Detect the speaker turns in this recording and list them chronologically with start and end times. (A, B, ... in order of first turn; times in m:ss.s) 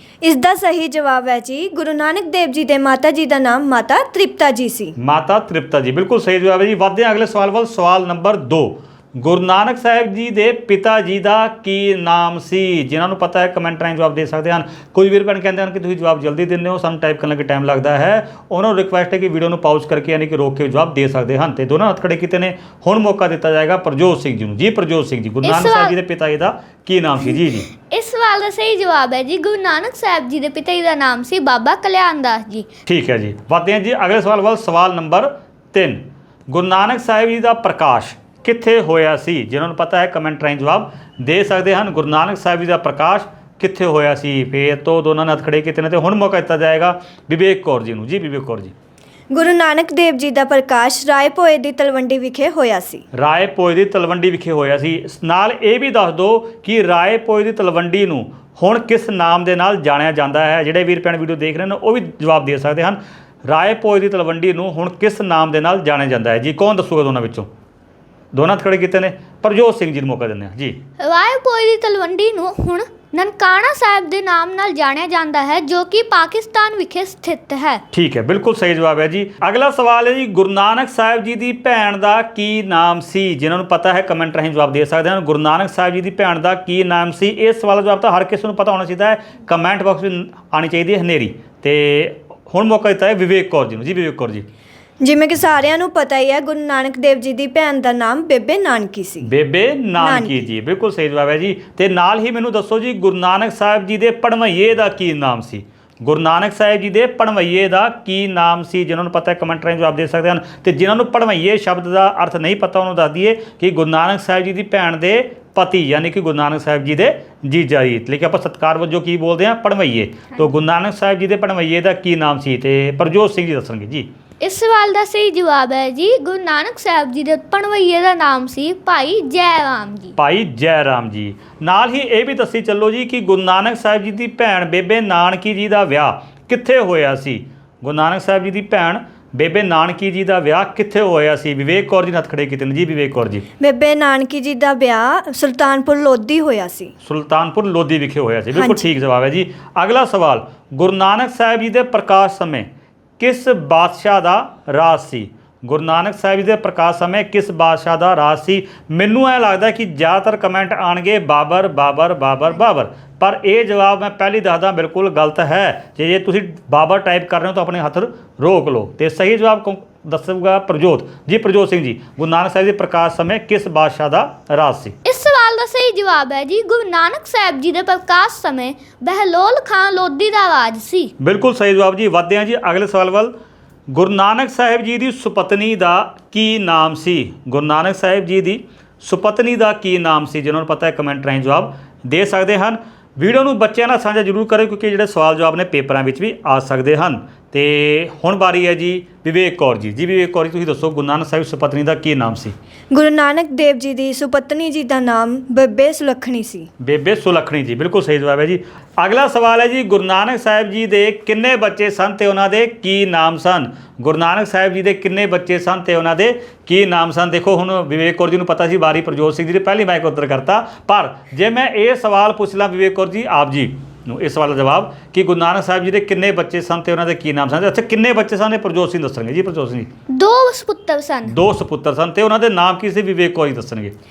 0:00.2-0:04.9 A
0:05.0-0:27.7 B
0:25.4-0:25.9 C
0:27.7-0:32.7 C
0:32.8-0:48.7 B
0:49.3-0:53.0 A
0:53.1-1:07.5 B
1:08.3-1:10.8 B
1:11.0-1:17.8 C
1:17.9-1:34.4 B
1:35.0-1:39.3 A
1:39.2-2:04.1 B
1:40.0-1:40.4 A
2:04.4-2:10.1 C
2:10.2-2:23.4 B
2:23.6-2:26.9 A
2:27.0-2:55.0 B
2:28.5-2:28.8 A
2:55.0-3:01.1 C
3:01.2-3:03.3 B
3:03.9-3:22.5 B
3:22.9-3:26.7 A
3:26.8-3:49.9 B
3:50.1-3:51.3 C
3:51.2-3:53.9 B